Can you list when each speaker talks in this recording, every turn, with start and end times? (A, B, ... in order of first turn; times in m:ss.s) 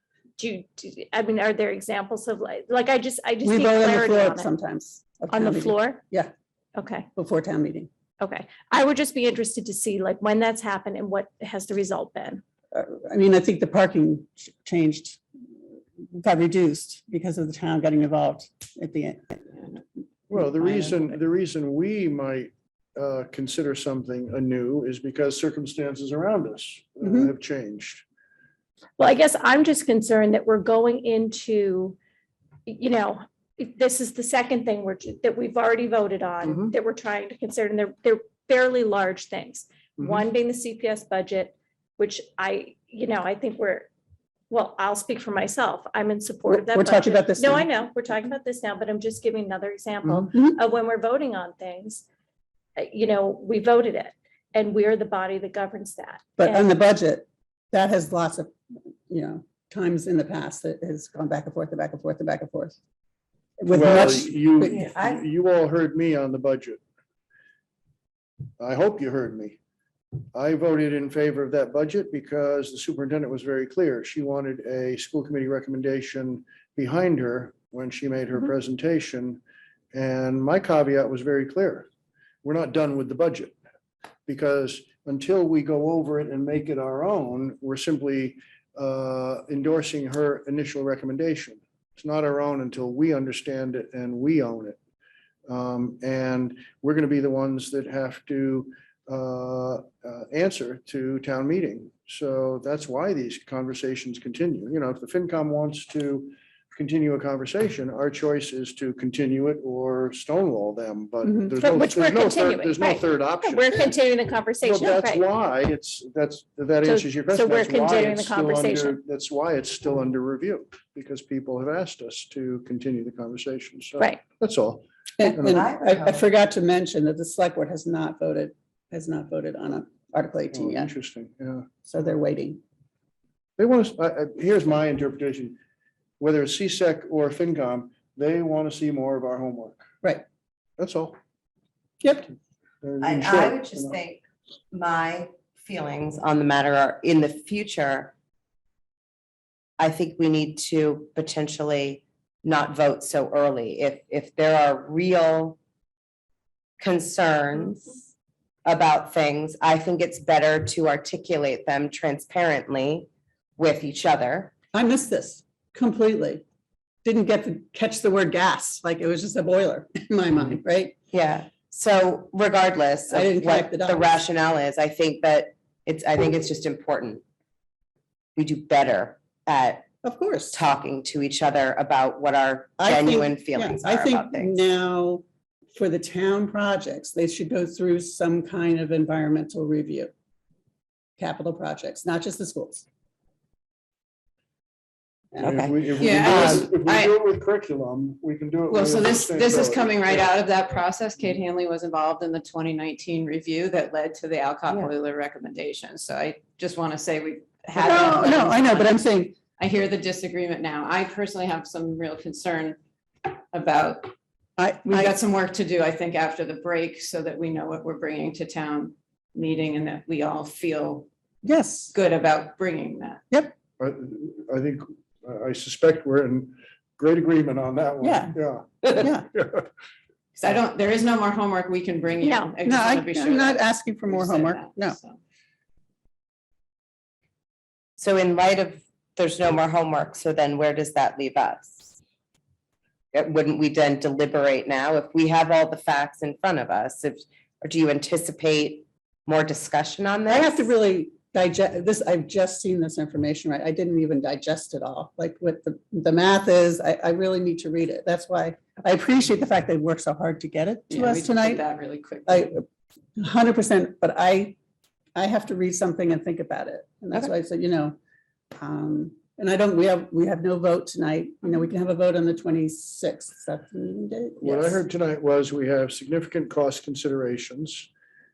0:00.4-0:04.5 A
0:03.4-0:06.3 B
0:05.3-0:06.0 A
0:06.8-0:07.1 A
0:07.2-0:07.9 B
0:08.2-0:12.4 A
0:12.7-0:15.2 B
0:16.0-0:19.4 B
0:20.3-0:28.0 C
0:20.4-0:21.1 B
0:27.0-0:27.3 B
0:29.0-0:32.0 A
0:32.7-0:43.9 A
0:36.4-0:36.7 C
0:44.5-0:52.0 A
0:46.5-0:47.7 B
0:50.1-0:50.6 B
0:52.8-0:56.7 A
0:56.4-0:58.5 B
0:59.1-1:02.8 B
1:03.6-1:05.0 B
1:03.7-1:06.8 C
1:04.7-1:05.1 D
1:08.6-1:09.6 C
1:10.3-1:19.4 C
1:19.9-1:21.9 C
1:22.4-1:23.6 C
1:24.3-1:34.8 C
1:35.5-1:53.9 C
1:51.2-1:51.6 B
1:51.6-1:55.2 A
1:54.6-2:05.7 C
1:56.8-1:59.0 A
2:05.2-2:10.9 B
2:05.4-2:06.2 D
2:10.5-2:11.7 C
2:11.8-2:12.6 B
2:13.6-2:15.6 C
2:16.2-2:19.8 C
2:20.8-2:21.2 C
2:22.0-2:22.3 B
2:22.8-2:24.0 C
2:23.0-2:28.1 D
2:29.8-2:35.6 D
2:36.8-2:38.0 D
2:38.6-2:44.5 D
2:44.7-2:46.4 B
2:47.0-2:51.0 B
2:51.1-2:57.2 D
2:53.1-2:54.1 B
2:58.4-2:59.9 D
3:00.0-3:00.6 B
3:00.5-3:04.6 D
3:02.8-3:05.2 B
3:05.8-3:10.1 B
3:11.2-3:12.8 B
3:15.4-3:16.7 D
3:15.4-3:20.4 C
3:16.0-3:17.2 E
3:18.7-3:28.9 E
3:27.8-3:29.4 B
3:29.6-3:34.1 E
3:34.6-3:35.2 B
3:34.9-3:41.1 E
3:41.4-3:42.0 B
3:41.9-3:43.2 E
3:43.8-3:49.7 C
3:48.0-3:48.4 B
3:49.0-3:49.2 B
3:50.4-3:55.2 E
3:52.2-3:52.5 A
3:52.6-3:55.0 B
3:58.0-4:01.9 D
4:03.1-4:10.7 D
4:10.3-4:21.6 B
4:20.9-4:22.5 E
4:22.3-4:22.6 B
4:23.2-4:24.6 B
4:25.2-4:28.0 B
4:28.6-4:34.8 B
4:34.4-4:37.9 C